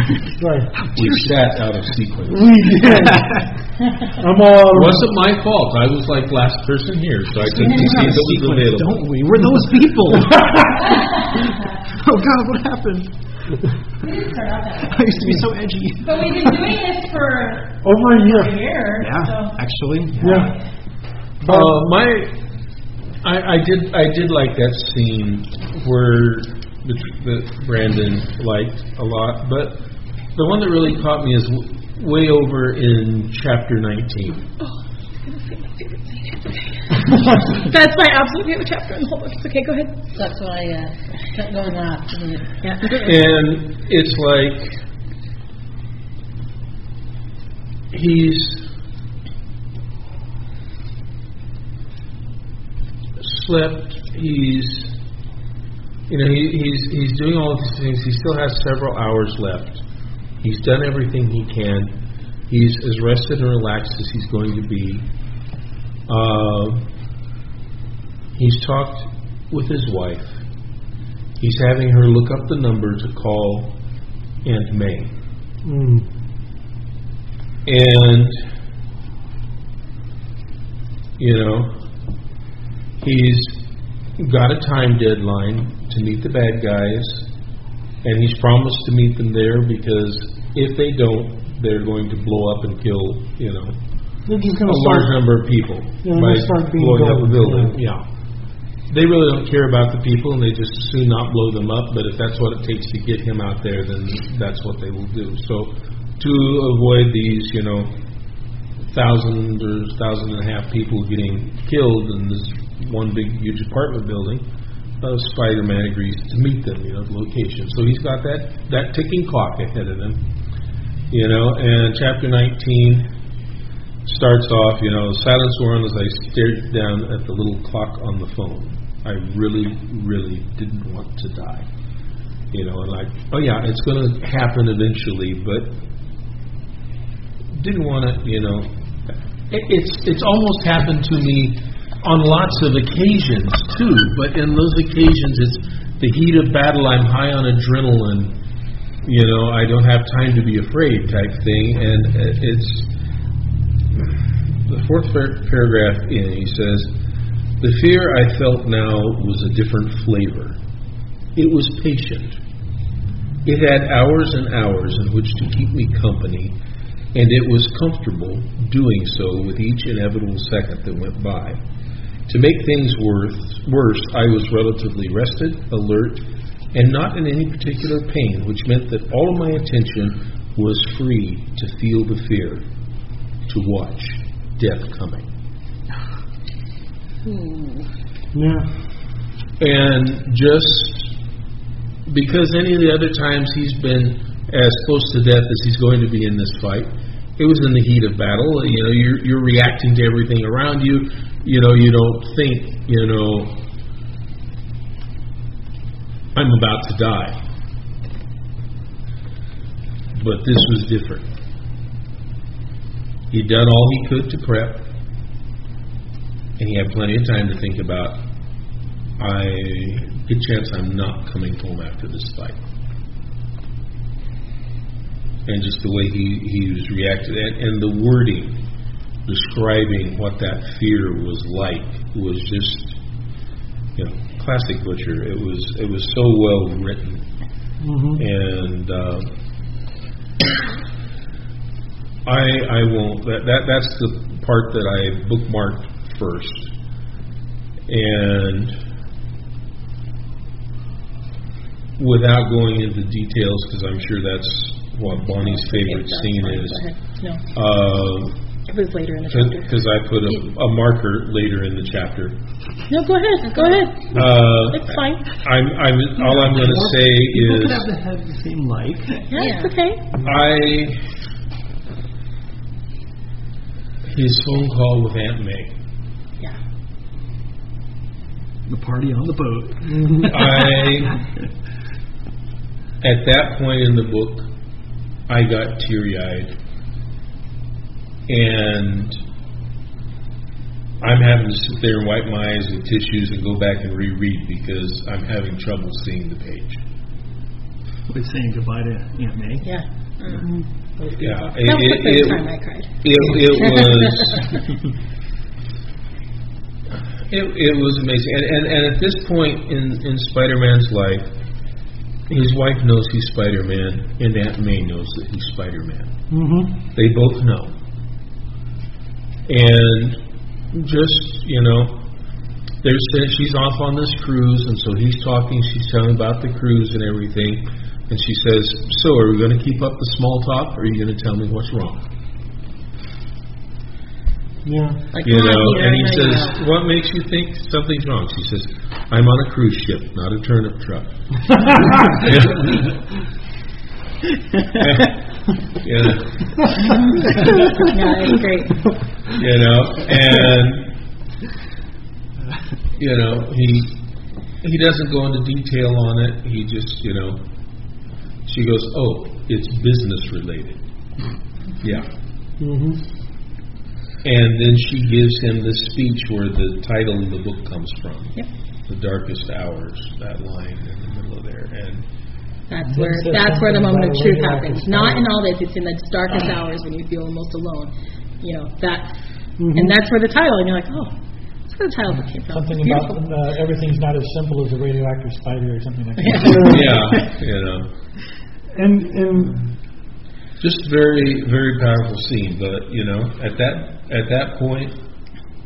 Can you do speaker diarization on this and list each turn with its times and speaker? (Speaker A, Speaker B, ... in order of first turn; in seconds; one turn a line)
Speaker A: 0.4-0.7
Speaker B: 0.8-1.4
Speaker C: 0.9-3.1
Speaker A: 2.3-3.5
Speaker B: 3.1-3.4
Speaker A: 4.2-5.1
Speaker C: 4.7-9.1
Speaker B: 7.4-11.1
Speaker B: 11.9-13.1
Speaker D: 14.0-15.3
Speaker B: 14.8-16.6
Speaker D: 16.0-19.6
Speaker A: 17.8-18.6
Speaker B: 19.0-20.5
Speaker A: 20.2-20.5
Speaker D: 20.2-20.6
Speaker A: 21.4-21.8
Speaker C: 21.4-22.4
Speaker C: 23.2-29.8
Speaker C: 30.3-34.5
Speaker D: 34.6-39.9
Speaker E: 40.1-42.5
Speaker D: 42.6-43.1
Speaker C: 42.9-44.8
Speaker C: 47.9-48.7
Speaker C: 53.2-55.0
Speaker C: 56.1-59.8
Speaker C: 60.4-61.9
Speaker C: 62.5-65.0
Speaker C: 66.1-66.8
Speaker C: 68.3-70.4
Speaker C: 71.4-73.8
Speaker C: 74.4-75.1
Speaker A: 75.6-76.1
Speaker C: 77.7-78.4
Speaker C: 81.2-81.7
Speaker C: 83.0-83.6
Speaker C: 84.2-87.3
Speaker C: 88.0-93.8
Speaker A: 94.2-95.2
Speaker C: 94.6-98.0
Speaker A: 96.0-97.8
Speaker C: 98.9-107.9
Speaker C: 108.9-114.4
Speaker C: 115.0-120.2
Speaker C: 121.1-123.1
Speaker C: 124.0-131.7
Speaker C: 132.5-135.8
Speaker C: 137.5-138.7
Speaker C: 139.5-148.3
Speaker C: 149.0-152.9
Speaker C: 154.6-156.9
Speaker C: 157.6-160.6
Speaker C: 161.3-162.4
Speaker C: 163.4-166.5
Speaker C: 167.1-171.6
Speaker C: 172.3-182.6
Speaker C: 183.5-185.2
Speaker D: 187.2-187.8
Speaker A: 188.3-188.7
Speaker C: 189.6-191.1
Speaker C: 192.1-203.6
Speaker C: 206.3-207.4
Speaker C: 210.1-211.2
Speaker C: 213.3-214.8
Speaker C: 216.6-218.2
Speaker C: 219.2-222.6
Speaker C: 225.4-228.6
Speaker C: 229.2-233.0
Speaker C: 233.9-237.2
Speaker A: 237.8-238.2
Speaker C: 238.2-239.3
Speaker C: 242.2-246.7
Speaker C: 247.9-248.7
Speaker C: 252.0-256.9
Speaker D: 255.6-256.2
Speaker E: 256.0-256.6
Speaker C: 257.5-258.3
Speaker D: 258.7-259.7
Speaker C: 259.3-262.4
Speaker D: 262.9-265.2
Speaker E: 263.5-263.9
Speaker C: 264.1-267.9
Speaker F: 266.2-269.3
Speaker D: 269.3-270.0
Speaker E: 269.4-269.7
Speaker C: 270.2-271.0
Speaker C: 274.1-275.7
Speaker F: 278.7-281.2
Speaker A: 280.0-280.3
Speaker C: 280.2-281.2
Speaker C: 283.0-284.5
Speaker C: 285.3-286.5
Speaker C: 288.3-289.2
Speaker C: 291.0-296.8
Speaker F: 298.1-299.6
Speaker D: 299.6-302.9
Speaker C: 301.1-304.6
Speaker C: 307.3-311.3
Speaker C: 312.3-316.1
Speaker A: 316.3-316.8
Speaker C: 316.9-317.7
Speaker C: 319.5-320.2
Speaker C: 320.7-322.0
Speaker C: 322.8-332.0
Speaker A: 334.6-335.0
Speaker E: 335.1-336.6
Speaker C: 335.2-342.9
Speaker C: 344.8-347.7
Speaker D: 346.8-348.8
Speaker C: 349.3-350.9
Speaker C: 353.0-353.9
Speaker C: 354.6-357.4
Speaker C: 358.4-360.8
Speaker C: 361.8-362.1
Speaker A: 362.6-363.0
Speaker C: 364.2-368.4
Speaker C: 368.9-372.0
Speaker D: 372.7-379.2
Speaker G: 372.8-375.3
Speaker A: 379.6-379.9
Speaker D: 379.7-383.1
Speaker G: 382.5-387.1
Speaker D: 386.2-386.6
Speaker A: 386.4-386.9
Speaker C: 386.6-387.9
Speaker A: 388.7-389.6
Speaker C: 390.6-395.0